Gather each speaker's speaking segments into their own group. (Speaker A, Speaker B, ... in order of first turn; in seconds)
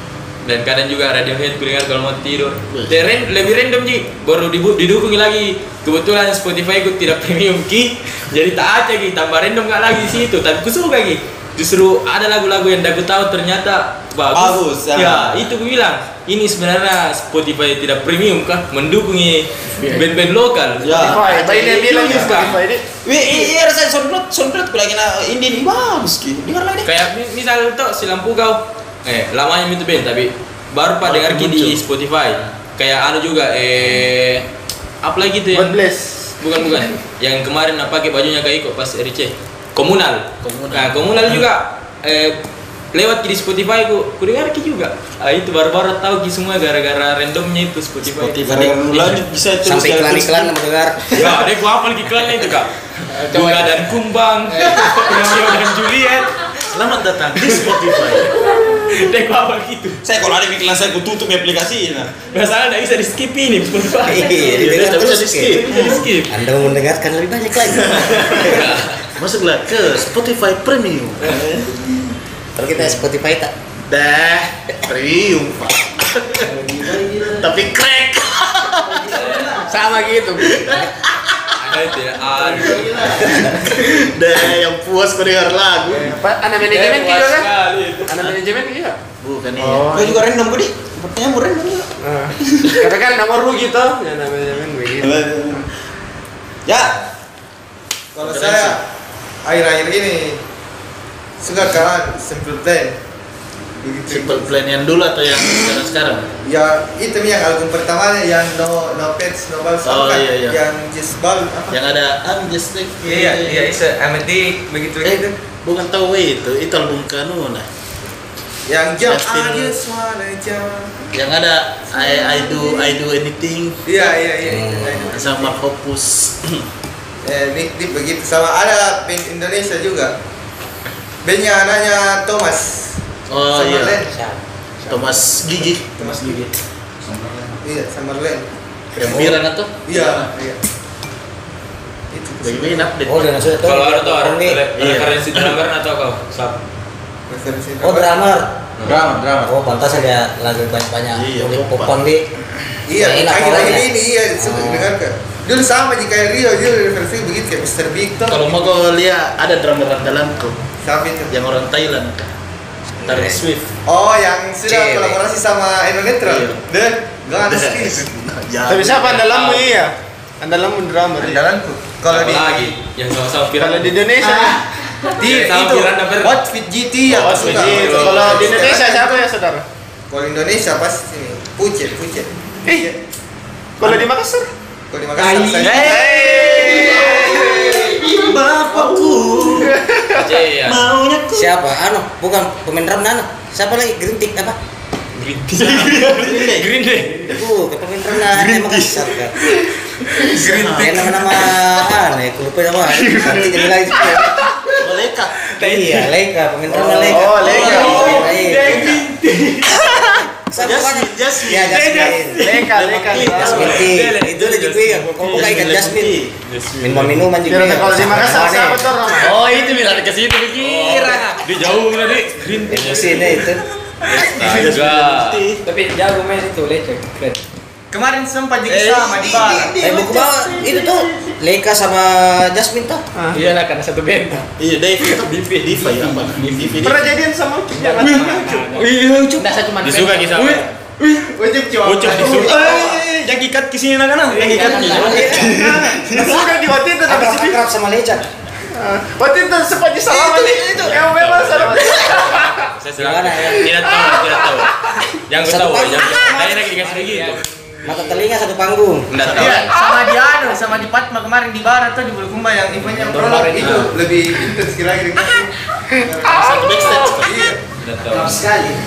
Speaker A: 0.4-21.2, 21.9-22.5, 26.8-34.5, 35.0-35.8, 36.4-42.4, 42.9-49.2, 51.1-56.3, 58.9-60.0, 62.3-64.8, 65.5-66.4, 68.4-69.0, 81.6-83.3, 86.7-88.3, 143.6-146.6, 169.1-169.7, 172.1-174.0, 175.2-176.4, 177.2-178.4, 190.1-190.8, 195.2-197.3, 207.4-209.0, 213.3-215.5, 216.4-217.3, 219.2-223.4, 224.0-225.4, 239.8-240.6, 241.8-242.6, 250.8-257.4, 259.1-259.8, 267.8-268.5
Speaker B: 14.3-15.4, 20.8-22.5, 23.0-26.9, 48.4-50.5, 60.0-62.1, 89.9-91.9, 92.5-92.7, 95.0-95.6, 96.7-97.0, 148.8-149.5, 185.5-187.4, 188.2-189.7, 190.7-191.5, 198.3-199.0, 207.8-208.1, 213.1-213.8, 220.7-221.1, 228.7-229.7, 238.0-239.6, 240.3-241.3, 242.1-246.4
Speaker C: 19.8-20.2, 53.1-53.9, 54.5-55.3, 76.8-77.1, 79.6-80.7, 208.0-208.8, 219.3-219.9, 220.7-221.2, 225.6-227.4, 233.3-234.5, 235.0-236.8, 237.7-240.7, 244.3-245.5, 256.1-258.2, 262.8-263.9
Speaker D: 20.9-21.5, 31.0-31.8, 40.4-41.4, 56.7-58.4, 64.4-66.0, 67.7-68.6, 69.1-71.5, 73.9-76.5, 77.3-79.5, 80.3-81.7, 82.4-86.1, 89.2-89.9, 104.1-106.3, 109.8-110.6, 111.7-113.8, 115.0-117.7, 119.0-119.7, 121.1-124.0, 125.1-126.6, 133.3-134.0, 134.9-137.6, 139.0-140.3, 142.4-143.6, 144.8-145.1, 151.1-151.9, 158.3-160.6, 161.3-162.3, 163.0-163.7, 166.3-166.5, 167.3-169.2, 177.2-178.5, 188.7-189.4, 195.6-196.8, 200.4-201.0, 204.8-205.4, 206.7-208.3, 210.6-213.8, 215.2-216.3, 224.3-225.6, 229.2-229.6, 234.6-237.1, 259.2-259.7, 266.2-267.5
Speaker E: 20.9-23.3, 35.5-36.3, 85.9-87.5, 88.1-89.0, 89.6-90.2, 92.0-95.6, 168.7-171.4, 173.6-174.6, 177.1-179.6, 183.8-184.5, 185.7-188.0, 189.5-190.3, 207.1-208.2, 212.3-213.8, 217.4-219.4, 233.1-233.4, 236.8-238.7, 245.4-247.6, 248.7-252.7, 253.5-254.6
Speaker F: 49.6-51.3, 64.0-65.6, 66.3-68.7, 72.5-73.5, 124.4-125.1, 134.1-135.1, 143.1-144.6, 147.8-148.5, 149.4-152.2, 152.9-154.9, 163.0-163.4, 164.6-165.2, 191.3-194.6, 197.1-199.3, 200.7-204.4, 205.6-209.0, 210.5-212.5, 213.2-216.2, 216.8-218.9, 222.7-223.6, 229.8-233.0, 244.6-245.6, 247.1-248.2, 253.0-253.9, 255.3-256.5, 257.8-259.1
Speaker G: 98.1-98.8, 99.4-100.4, 101.4-103.0, 103.8-104.5, 106.4-111.8, 113.0-115.3, 118.7-121.1, 122.0-122.9, 123.8-125.5, 127.2-130.1, 131.2-134.1, 135.9-136.5, 137.6-138.5, 139.8-140.6, 142.1-142.9, 147.3-148.1, 152.9-158.6, 160.8-161.3, 163.8-168.1, 171.2-172.8, 175.2-179.2, 180.1-182.9, 184.9-186.1, 200.2-201.2, 227.9-229.8, 241.3-242.9, 259.3-267.6